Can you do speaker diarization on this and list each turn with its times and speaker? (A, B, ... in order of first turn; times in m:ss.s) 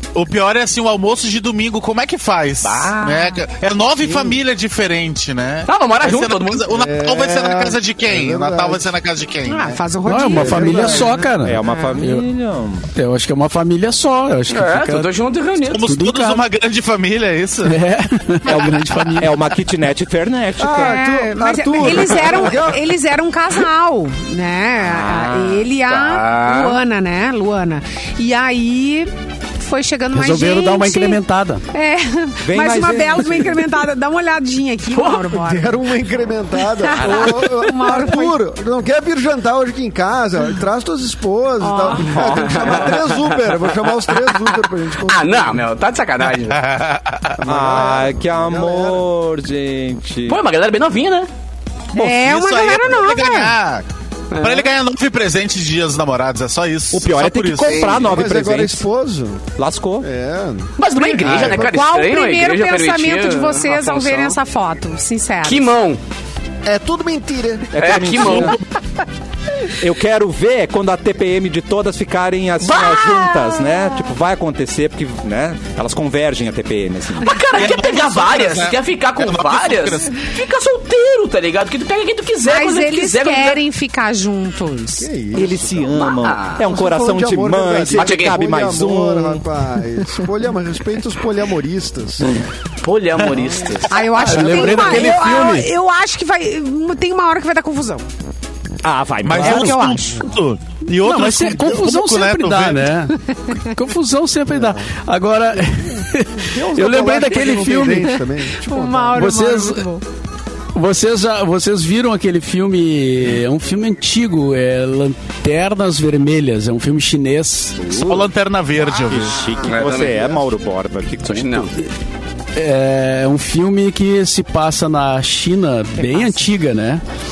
0:00.1-0:09.8 A
0:05.7-0:06.7 B
0:06.7-0:08.9 C
0:09.4-0:12.0 D
0:10.0-0:12.2 E
0:10.3-0:11.1 C
0:11.4-0:12.8 F
0:12.9-0:15.1 E
0:14.5-0:15.9 B
0:15.7-0:17.8 A
0:15.8-0:16.4 E
0:17.6-0:19.4 E
0:18.5-0:21.0 F
0:20.6-0:22.8 C
0:20.7-0:31.2 D
0:22.0-0:22.4 F
0:24.8-0:25.7 F
0:25.9-0:26.8 B
0:30.1-0:31.6 E
0:31.7-0:35.8 D
0:32.4-0:33.7 F
0:34.9-0:35.2 B
0:35.3-0:45.6 C
0:36.8-0:38.4 D
0:41.6-0:42.7 D
0:42.1-0:42.9 F
0:42.3-0:46.6 B
0:46.4-0:47.4 A
0:47.4-0:49.1 C
0:47.4-0:50.4 F
0:50.3-0:51.3 B
0:51.9-0:53.5 D
0:52.0-0:53.8 A
0:54.3-0:54.7 B
0:54.4-0:58.0 A
0:56.9-0:58.8 F
0:57.6-0:58.1 B
0:58.0-0:59.4 C
0:59.6-1:00.1 F
1:00.0-1:00.7 C
1:00.8-1:04.4 B
1:01.0-1:05.7 D
1:01.2-1:01.6 A
1:05.4-1:06.0 B
1:06.6-1:07.7 C
1:07.7-1:08.6 F
1:07.8-1:08.6 B
1:09.8-1:17.4 F
1:12.7-1:13.7 D
1:12.7-1:13.3 B
1:17.2-1:23.6 B
1:17.5-1:20.2 A
1:22.4-1:25.1 D
1:25.0-1:26.1 C
1:25.3-1:29.4 F
1:25.9-1:26.6 B
1:26.6-1:32.4 C
1:27.9-1:28.4 B
1:32.3-1:33.9 B
1:33.3-1:35.0 C
1:33.9-1:38.0 D
1:34.2-1:35.7 E
1:38.8-1:39.8 F
1:39.2-1:42.9 A
1:39.4-1:40.1 D
1:41.0-1:48.2 E
1:44.5-1:44.9 C
1:46.4-1:49.2 C
1:48.6-1:50.0 D
1:49.1-1:49.8 E
1:50.8-1:57.9 E
1:57.9-1:58.2 B
1:57.9-1:58.2 F
1:58.0-1:59.5 A
1:58.9-2:01.8 F
1:59.6-2:00.5 B
2:01.2-2:01.7 B
2:02.6-2:07.0 E